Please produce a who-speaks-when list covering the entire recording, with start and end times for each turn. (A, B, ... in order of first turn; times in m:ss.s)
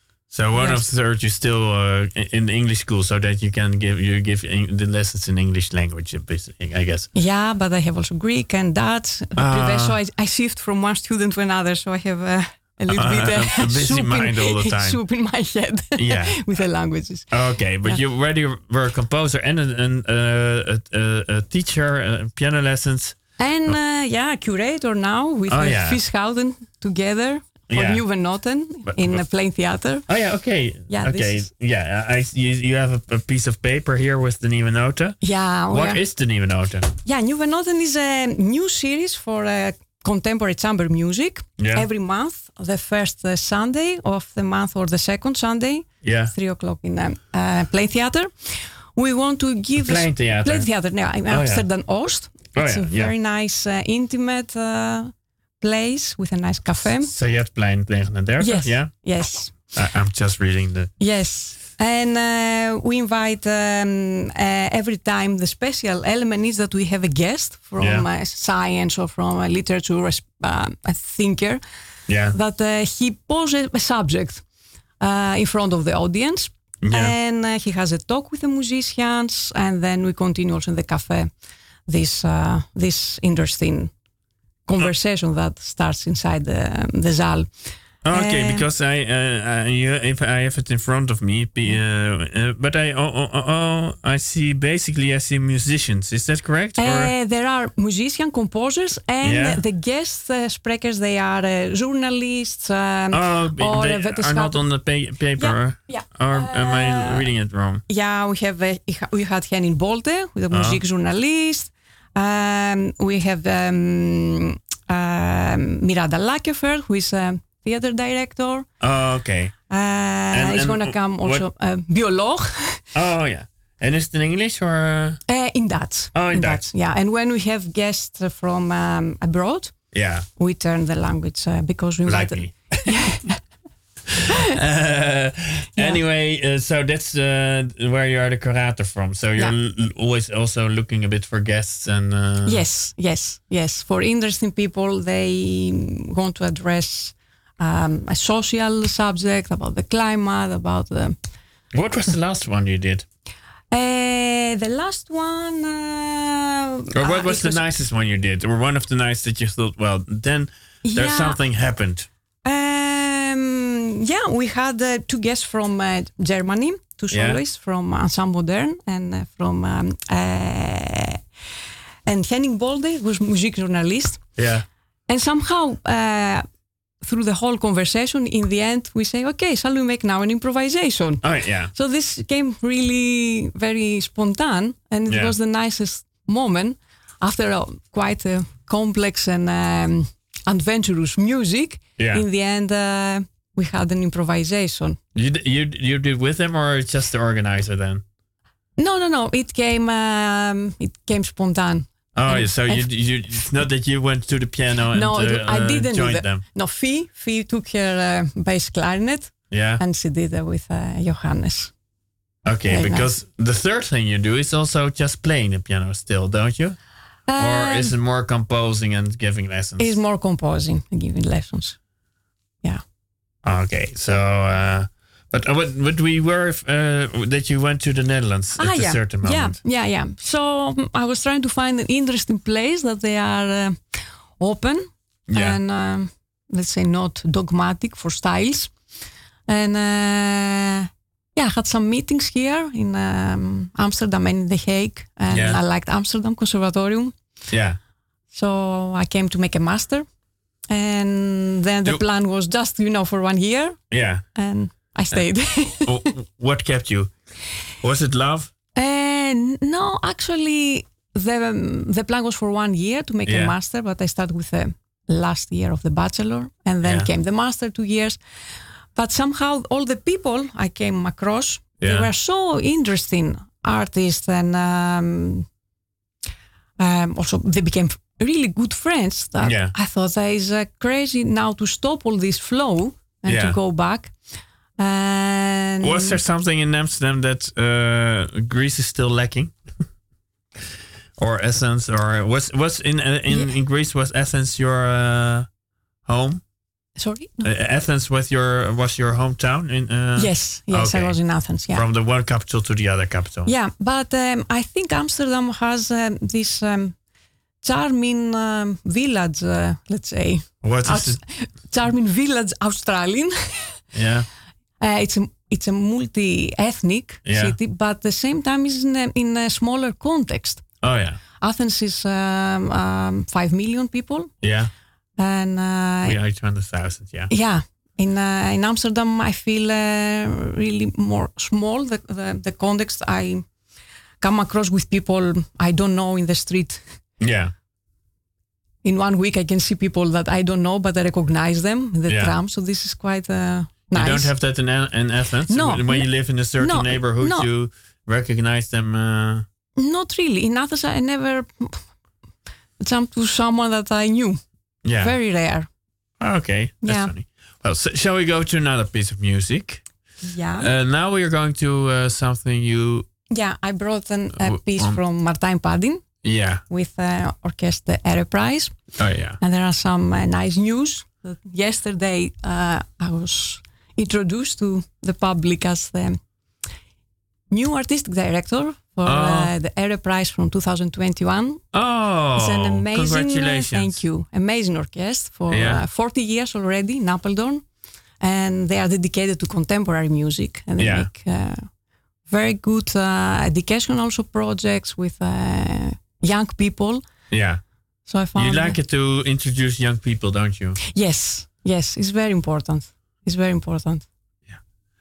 0:00.3-0:07.1 A
0:00.5-0:00.8 B
0:07.1-0:17.3 B
0:09.4-0:10.0 A
0:12.9-0:15.0 A
0:16.0-0:16.4 A
0:17.3-0:23.2 A
0:23.4-0:30.0 B
0:25.5-0:26.0 A
0:27.7-0:28.0 A
0:28.8-0:29.2 A
0:30.1-0:36.9 A
0:30.9-0:31.4 B
0:35.2-0:36.0 B
0:37.0-0:57.1 B
0:41.6-0:41.9 A
0:46.0-0:46.3 A
0:49.8-0:50.7 A
0:51.3-0:51.6 A
0:52.5-0:53.1 A
0:57.0-0:58.9 A
0:58.4-0:59.5 B
0:59.7-1:00.9 A
1:01.0-1:11.6 B
1:07.8-1:08.0 A
1:12.1-1:12.4 A
1:12.3-1:14.4 B
1:15.0-1:21.3 B
1:16.8-1:17.1 A
1:21.9-1:23.9 B
1:24.6-1:27.5 B
1:28.0-1:37.1 A
1:28.1-1:28.6 B
1:36.8-1:44.6 B
1:39.2-1:39.6 A
1:43.1-1:47.8 A
1:45.4-1:47.3 B
1:47.9-1:58.7 B
1:50.5-1:50.8 A
1:58.8-1:59.5 A
1:59.7-2:02.8 B
2:00.3-2:01.4 A
2:02.9-2:05.2 A
2:05.3-2:13.4 B
2:06.1-2:06.7 A
2:09.9-2:10.2 A
2:12.0-2:13.1 A
2:14.1-2:22.6 A
2:22.4-2:31.2 B
2:31.7-2:33.0 A
2:33.7-2:37.6 B
2:36.9-2:42.1 A
2:40.8-2:41.4 B
2:42.4-2:51.2 B
2:47.1-2:47.4 A
2:52.0-2:54.2 B
2:54.4-2:54.6 A
2:55.1-2:56.4 B
2:57.0-3:15.0 B
3:01.2-3:01.7 A
3:05.1-3:05.3 A
3:12.0-3:12.2 A
3:15.1-3:18.0 A
3:18.8-3:22.9 B
3:22.1-3:26.4 A
3:24.9-3:31.7 B
3:29.5-3:29.8 A
3:32.4-3:36.8 A
3:32.7-3:33.1 B
3:37.3-3:37.9 B
3:37.4-3:40.0 A
3:39.8-3:41.8 B
3:43.4-3:49.6 A
3:48.6-3:58.7 B
3:55.3-3:55.6 A
3:59.5-4:07.2 B
4:05.3-4:05.6 A
4:07.5-4:07.8 A
4:08.3-4:10.1 B
4:10.7-4:13.8 B
4:13.9-4:14.2 A
4:14.3-4:16.0 B
4:15.8-4:17.1 A
4:17.8-4:18.5 A
4:18.7-4:28.2 B
4:23.2-4:23.5 A
4:26.8-4:27.1 A
4:28.9-4:35.5 B
4:31.8-4:32.1 A
4:36.8-4:44.2 B
4:39.4-4:39.7 A
4:43.2-4:43.6 A
4:44.8-4:46.2 B
4:45.8-4:49.6 A
4:51.2-4:55.5 A
4:56.0-4:56.4 A
4:57.0-4:57.5 B
4:57.4-5:01.2 A
5:00.2-5:01.8 B
5:01.7-5:03.5 A
5:03.4-5:07.0 B
5:07.6-5:13.8 B
5:10.6-5:11.2 A
5:13.9-5:14.3 A
5:14.8-5:20.6 B
5:17.2-5:17.6 A
5:20.8-5:21.2 A
5:21.4-5:24.3 B
5:24.4-5:24.7 A
5:25.2-5:26.2 B
5:26.0-5:27.3 A
5:27.3-5:33.4 B
5:34.2-5:36.9 B
5:37.2-5:37.5 A
5:38.8-5:44.3 B
5:42.1-5:42.3 A
5:43.9-5:49.4 A
5:45.5-5:47.5 B
5:49.8-5:51.9 B
5:52.8-5:54.4 B
5:54.8-5:55.1 A
5:55.0-5:55.7 B
5:56.2-5:59.8 A
5:56.8-5:57.1 B
6:00.2-6:00.7 B
6:00.6-6:03.1 A
6:03.3-6:06.1 B
6:04.4-6:05.0 A
6:06.2-6:06.6 A
6:06.7-6:08.8 B
6:09.0-6:09.4 A
6:09.4-6:16.2 B
6:17.5-6:21.6 B
6:19.0-6:19.5 A
6:21.7-6:24.0 A
6:22.3-6:27.6 B
6:25.5-6:25.8 A
6:28.2-6:31.7 B
6:30.8-6:31.1 A
6:32.3-6:37.0 B
6:37.3-6:37.6 A
6:38.0-6:38.8 B
6:38.3-6:40.8 A
6:40.8-6:44.0 B